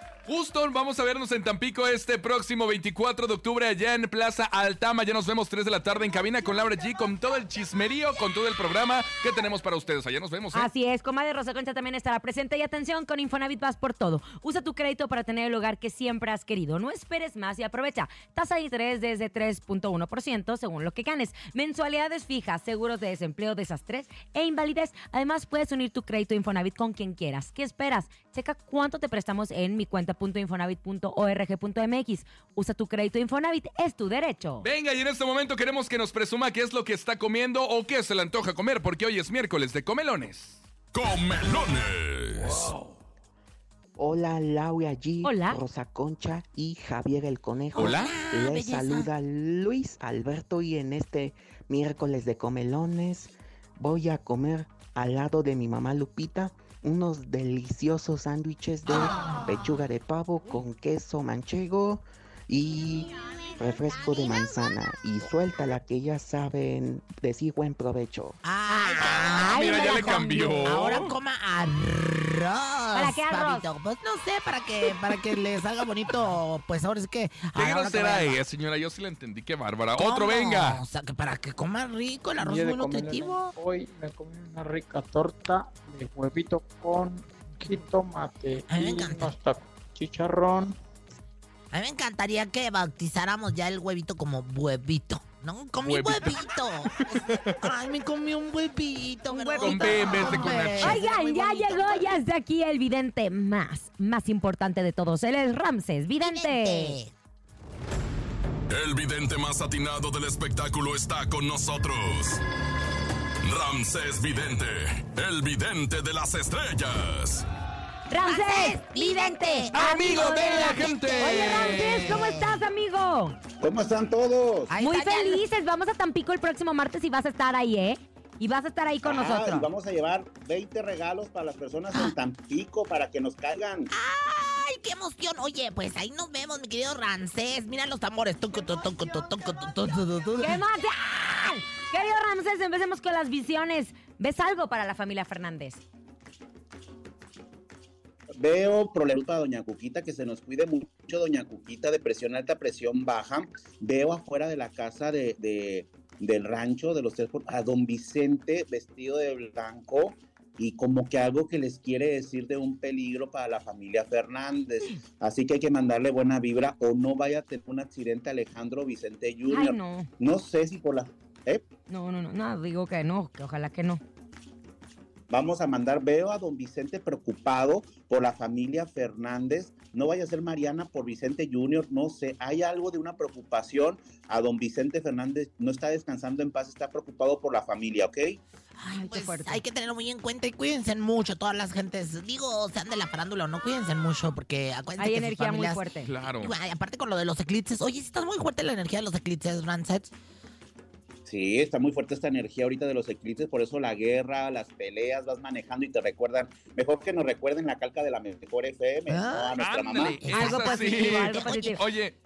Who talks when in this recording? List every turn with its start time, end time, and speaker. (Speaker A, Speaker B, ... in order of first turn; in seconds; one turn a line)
Speaker A: 0.2-10.7
Speaker B: 10.5-34.7
Speaker A: 34.6-40.6
Speaker C: 40.9-42.7
Speaker D: 44.0-68.4
Speaker B: 45.2-45.6
Speaker E: 47.7-49.1
Speaker A: 47.8-48.1
Speaker E: 68.4-78.4
Speaker B: 68.7-70.6
Speaker A: 69.0-71.1
Speaker B: 72.9-73.7
Speaker A: 77.5-80.8
Speaker E: 80.0-83.5
Speaker F: 82.4-90.8
Speaker E: 88.7-89.3
Speaker E: 91.7-102.2
Speaker A: 95.8-97.6
Speaker B: 99.3-107.0
Speaker A: 99.6-101.0
Speaker E: 106.2-107.1
Speaker C: 108.7-112.4
Speaker C: 113.4-117.4
Speaker B: 118.1-123.4
Speaker E: 118.2-122.6
Speaker A: 119.7-122.2
Speaker G: 123.6-124.7
Speaker E: 124.7-125.4
Speaker B: 124.8-129.7
Speaker G: 129.0-133.9
Speaker E: 133.9-140.6
Speaker B: 140.4-145.8
Speaker G: 148.4-171.6
Speaker B: 169.5-170.1
Speaker B: 171.9-174.0
Speaker G: 175.3-188.4
Speaker E: 188.8-195.8
Speaker B: 188.8-189.6
Speaker B: 195.0-196.1
Speaker A: 196.0-196.5
Speaker E: 196.4-200.1
Speaker G: 201.2-210.3
Speaker E: 209.1-211.7
Speaker A: 209.6-212.2
Speaker B: 210.3-211.8